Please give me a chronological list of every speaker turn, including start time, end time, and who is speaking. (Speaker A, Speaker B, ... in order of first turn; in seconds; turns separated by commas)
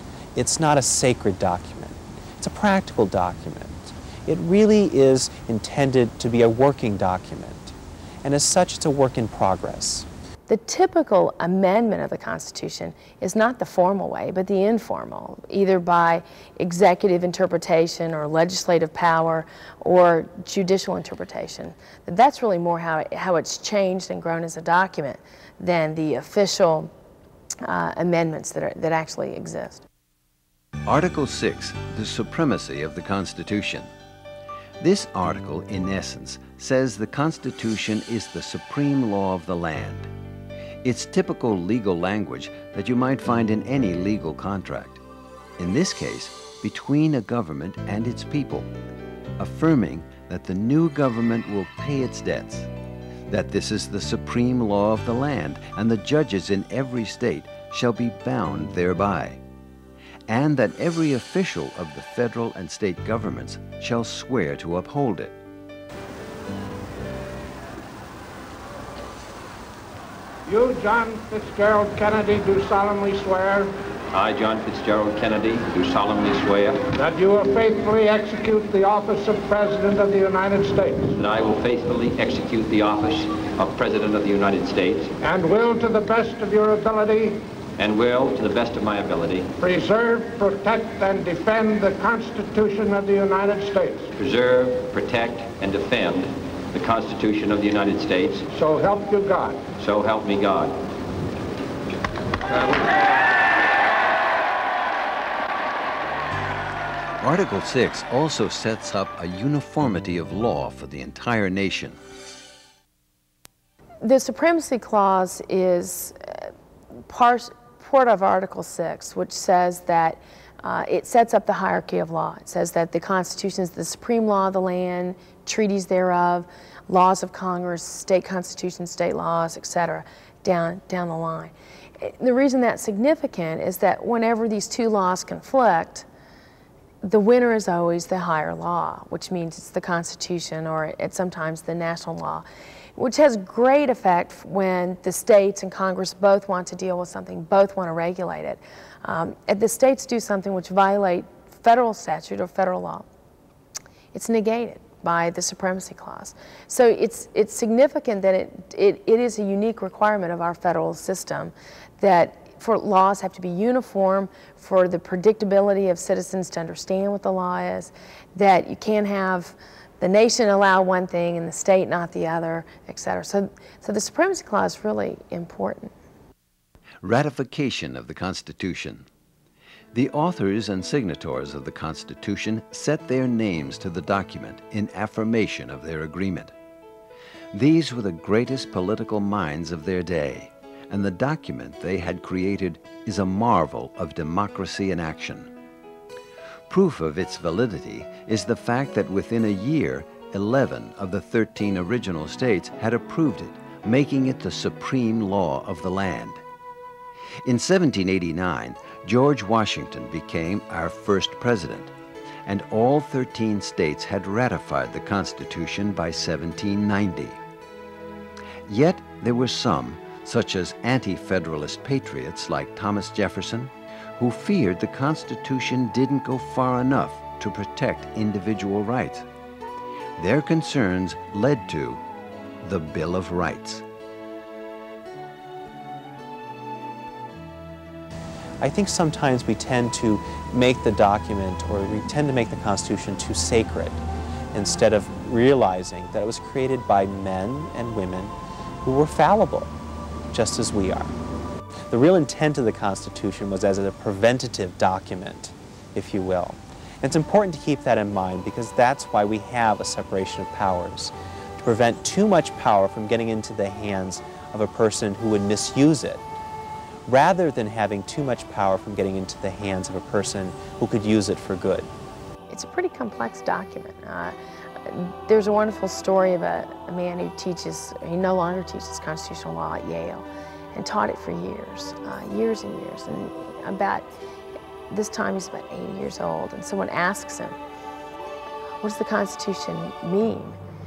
Speaker A: 0.3-10.1, Speaker B: 10.5-26.9, Speaker B: 27.6-29.9, Speaker C: 30.9-33.9, Speaker C: 34.8-40.1, Speaker C: 40.8-45.0, Speaker C: 45.6-48.7, Speaker C: 49.4-52.7, Speaker C: 53.3-59.4, Speaker C: 60.3-65.4, Speaker D: 70.5-73.7, Speaker E: 74.1-76.9, Speaker D: 77.0-81.1, Speaker E: 81.2-85.1, Speaker D: 85.2-87.4, Speaker E: 87.8-89.5, Speaker D: 89.6-94.1, Speaker E: 94.2-98.5, Speaker D: 98.5-99.7, Speaker E: 99.8-100.8, Speaker E: 102.6-102.9, Speaker C: 107.2-112.0, Speaker B: 114.0-116.5, Speaker B: 117.1-136.1, Speaker B: 137.0-142.4, Speaker B: 143.0-153.1, Speaker B: 154.1-175.9, Speaker C: 177.0-179.1, Speaker C: 179.9-186.5, Speaker C: 187.5-195.5, Speaker C: 196.7-206.4, Speaker C: 207.4-211.9, Speaker C: 212.5-217.4, Speaker C: 218.7-229.3, Speaker C: 230.2-232.0, Speaker C: 232.6-233.8, Speaker A: 238.6-244.0, Speaker A: 244.5-249.7, Speaker A: 250.3-251.1, Speaker A: 251.9-266.2, Speaker A: 267.1-271.9, Speaker B: 272.5-284.1, Speaker B: 284.9-287.6, Speaker B: 288.8-290.6